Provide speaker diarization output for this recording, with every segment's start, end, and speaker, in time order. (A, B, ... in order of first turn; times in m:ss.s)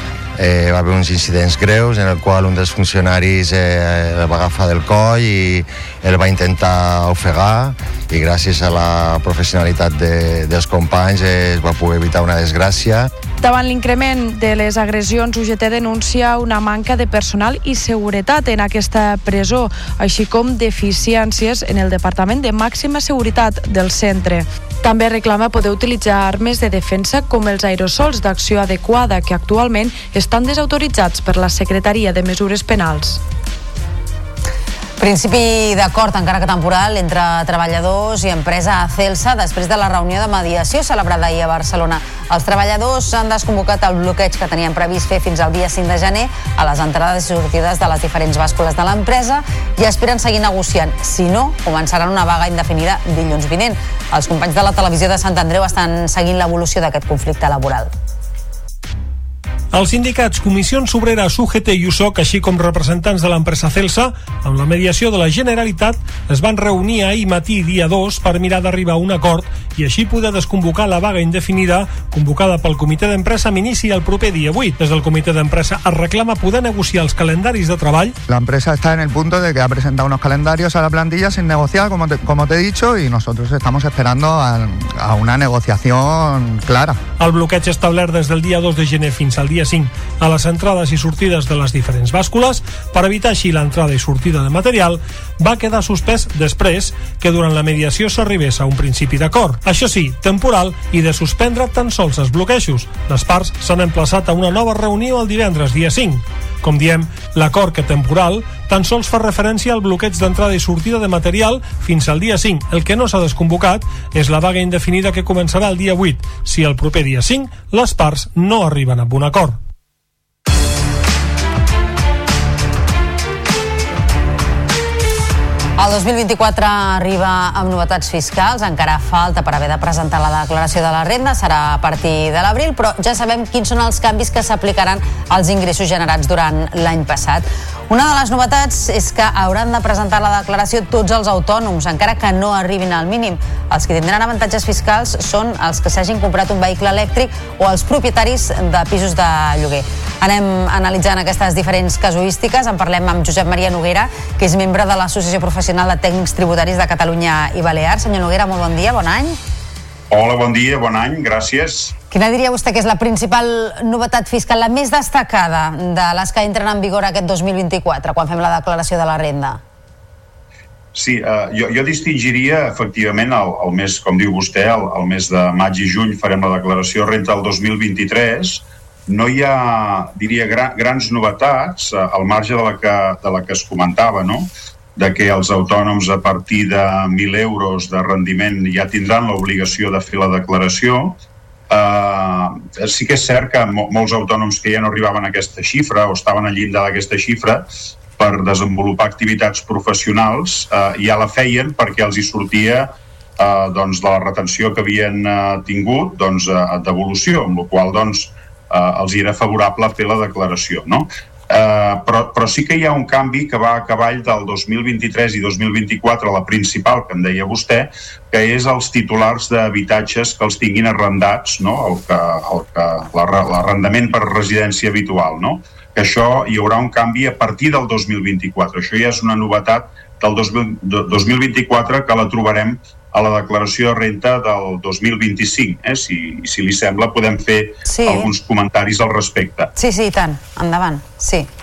0:00.4-0:13.1 A
0:13.4-0:33.2 B
0:35.0-0:57.9 C
0:59.7-1:18.1 D
1:18.3-1:27.0 E
1:27.2-1:59.6 D
2:05.8-2:39.4 C
2:40.1-2:41.9 F
2:42.1-2:49.6 C
2:50.9-3:11.2 F
3:11.7-3:17.6 F
3:18.2-3:59.7 F
3:57.9-3:58.3 C
3:59.8-4:01.5 C